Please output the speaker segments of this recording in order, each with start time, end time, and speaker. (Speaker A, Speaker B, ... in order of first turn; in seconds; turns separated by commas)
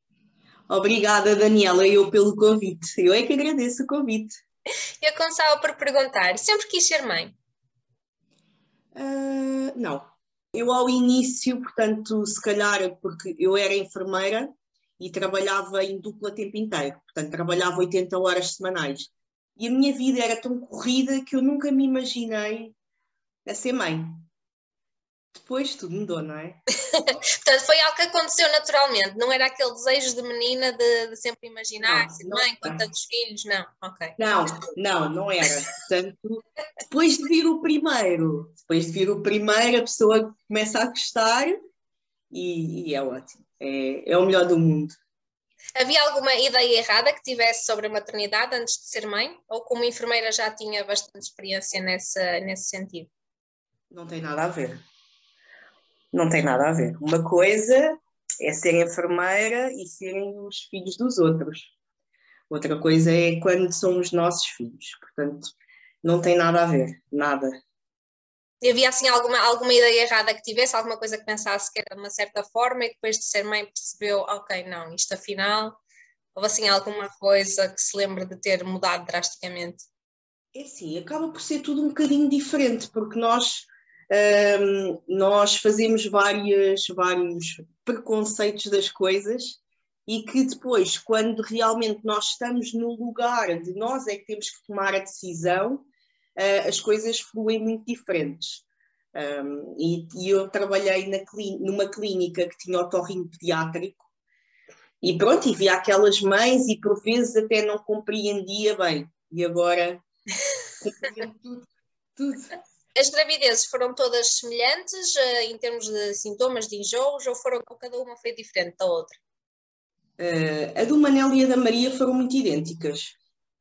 Speaker A: 0.7-4.3, Speaker B: 5.0-7.3, Speaker A: 8.9-22.8, Speaker A: 23.4-24.2, Speaker A: 25.3-26.6, Speaker B: 26.9-34.2, Speaker A: 31.8-32.8, Speaker A: 34.2-41.5, Speaker A: 42.3-44.9, Speaker B: 45.8-53.1, Speaker A: 53.9-54.8, Speaker A: 56.1-61.7, Speaker A: 62.5-67.5, Speaker B: 68.6-75.8, Speaker B: 76.3-79.8, Speaker A: 80.5-95.8, Speaker A: 96.4-104.0, Speaker A: 105.0-110.0, Speaker A: 110.8-112.5, Speaker B: 112.9-119.2, Speaker A: 120.2-123.2